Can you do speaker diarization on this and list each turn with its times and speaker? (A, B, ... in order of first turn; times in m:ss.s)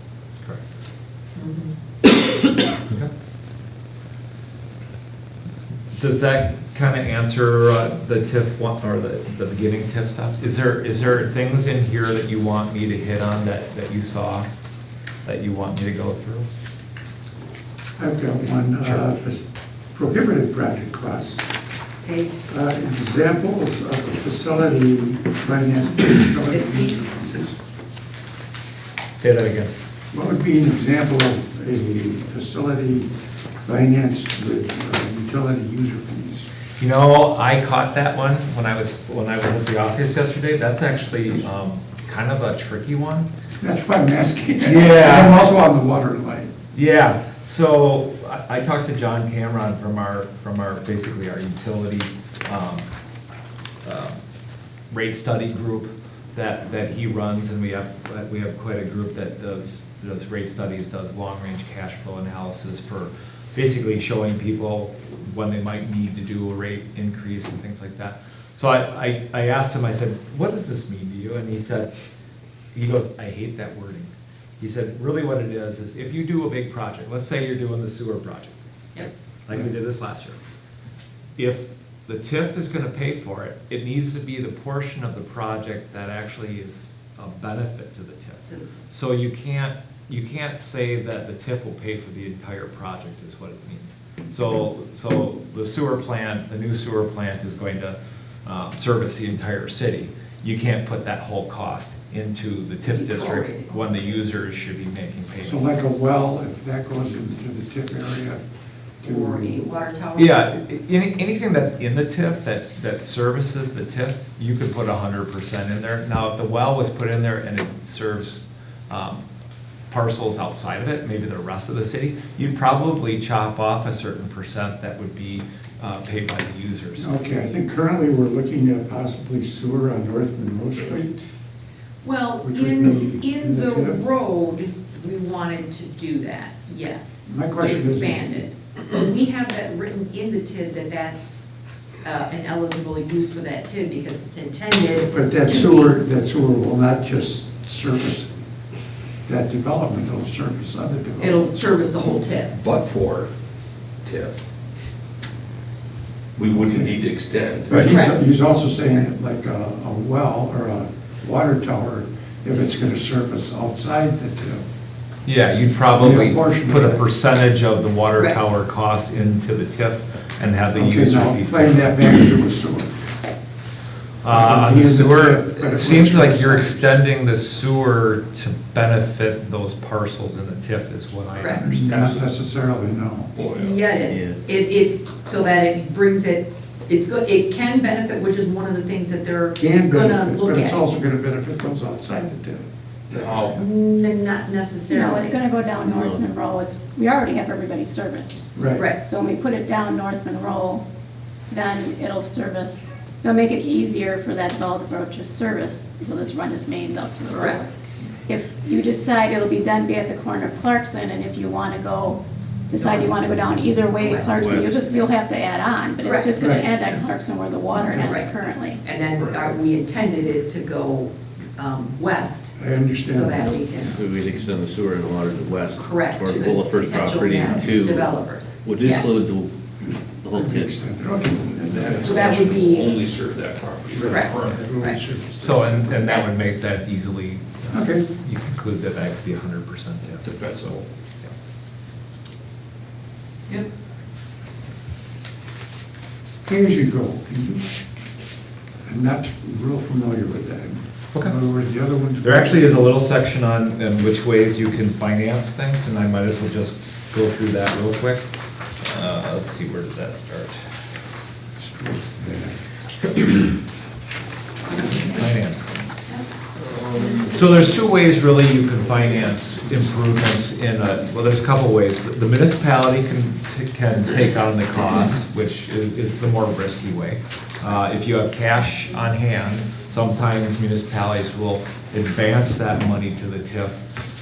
0:01.4-0:01.7 A
0:06.0-0:14.5 B
0:15.2-0:16.5 B
0:18.0-0:21.4 C
0:22.0-0:22.3 A
0:22.5-0:27.6 C
0:26.5-0:27.0 A
0:29.1-0:29.7 B
0:30.1-0:36.5 C
0:36.8-0:43.3 B
0:43.6-0:46.5 C
0:44.6-0:45.4 B
0:46.7-0:52.8 B
0:53.8-0:54.2 B
0:54.9-1:11.9 B
1:12.7-1:18.6 B
1:19.5-1:20.4 B
1:21.4-1:45.7 B
1:42.8-1:44.1 A
1:45.4-1:48.4 C
1:49.0-1:49.7 C
1:49.0-1:50.5 A
1:50.2-1:59.2 B
1:59.9-2:07.1 B
2:07.0-2:11.2 C
2:12.0-2:21.4 A
2:12.4-2:14.0 C
2:17.3-2:18.5 C
2:22.0-2:26.0 A
2:25.1-2:28.3 C
2:29.3-2:31.6 C
2:31.2-2:32.6 A
2:32.5-2:33.3 D
2:34.0-2:34.5 D
2:36.4-2:37.8 D
2:37.7-2:44.7 C
2:37.8-2:38.2 A
2:45.3-2:51.9 B
2:46.0-2:47.0 C
2:50.8-2:53.0 C
2:54.2-3:01.9 B
2:54.2-2:57.0 C
3:01.3-3:01.6 A
3:01.6-3:03.3 C
3:01.8-3:02.2 D
3:03.4-3:03.9 D
3:03.6-3:10.8 A
3:04.1-3:04.4 E
3:09.6-3:13.6 C
3:13.1-3:13.6 D
3:13.6-3:15.4 A
3:14.9-3:18.4 F
3:15.8-3:16.2 E
3:18.6-3:18.9 C
3:19.0-3:20.8 F
3:21.5-3:27.7 F
3:27.3-3:27.6 A
3:28.3-3:38.8 F
3:32.8-3:33.2 A
3:34.0-3:35.1 A
3:34.3-3:34.8 E
3:36.0-3:36.4 A
3:36.4-3:36.7 C
3:37.8-3:44.0 A
3:42.6-3:44.0 C
3:43.8-3:49.5 E
3:45.8-3:49.2 A
3:49.8-3:52.3 C
3:50.2-3:50.7 E
3:51.6-3:55.8 D
3:52.0-3:53.0 A
3:53.9-3:55.0 C
3:54.0-3:55.0 A
3:55.4-4:00.4 B
3:57.7-3:58.1 C
4:00.2-4:00.8 D
4:06.4-4:07.7 C
4:08.9-4:12.8 C
4:12.2-4:18.3 B
4:18.8-4:20.6 B
4:21.6-4:22.6 C
4:24.7-4:25.2 A
4:25.0-4:25.7 B
4:26.7-4:27.2 D
4:27.0-4:27.3 A
4:27.3-4:43.8 B